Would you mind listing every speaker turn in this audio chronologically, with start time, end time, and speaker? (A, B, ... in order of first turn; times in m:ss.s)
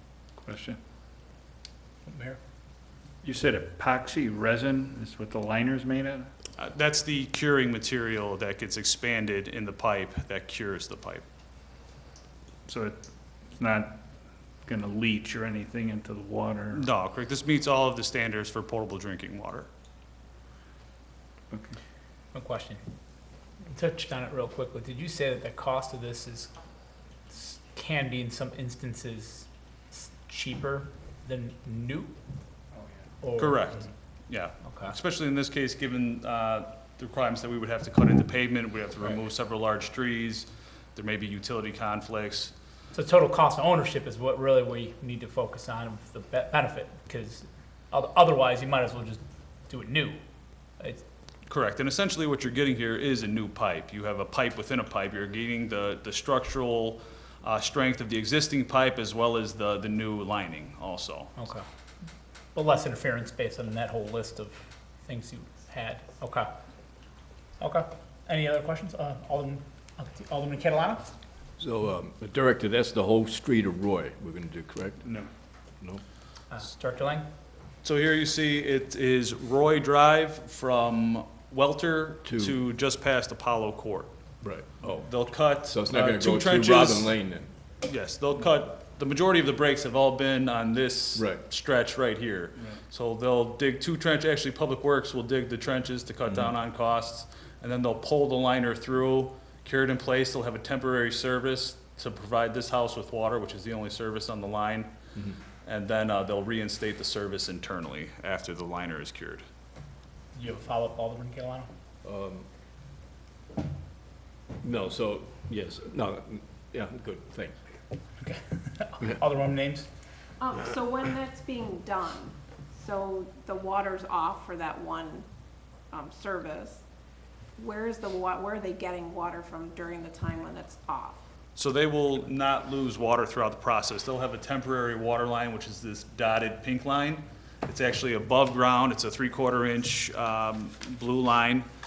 0:00.4-0:00.8 A
0:03.2-0:06.3 A
0:06.6-0:11.2 B
0:12.6-0:13.0 A
0:13.6-0:14.0 A
0:14.6-0:16.8 A
0:16.7-0:19.7 B
0:21.5-0:21.8 A
0:22.3-0:22.8 C
0:23.7-0:26.5 C
0:27.3-0:32.1 C
0:33.2-0:33.8 C
0:33.4-0:42.5 B
0:34.6-0:34.9 C
0:42.9-0:50.2 C
0:51.5-1:01.3 B
1:01.4-1:01.6 C
1:02.5-1:06.5 C
1:07.6-1:11.1 C
1:11.6-1:15.0 D
1:16.5-1:17.2 C
1:17.8-1:24.1 B
1:22.2-1:22.6 D
1:24.4-1:27.5 D
1:25.0-1:27.1 B
1:27.8-1:44.9 B
1:31.1-1:31.4 D
1:45.6-1:49.4 B
1:50.3-1:51.7 C
1:52.0-1:52.5 D
1:54.6-1:57.6 D
1:58.2-1:59.9 C
2:00.4-2:05.2 E
2:05.9-2:06.8 E
2:07.6-2:11.2 E
2:11.6-2:21.7 B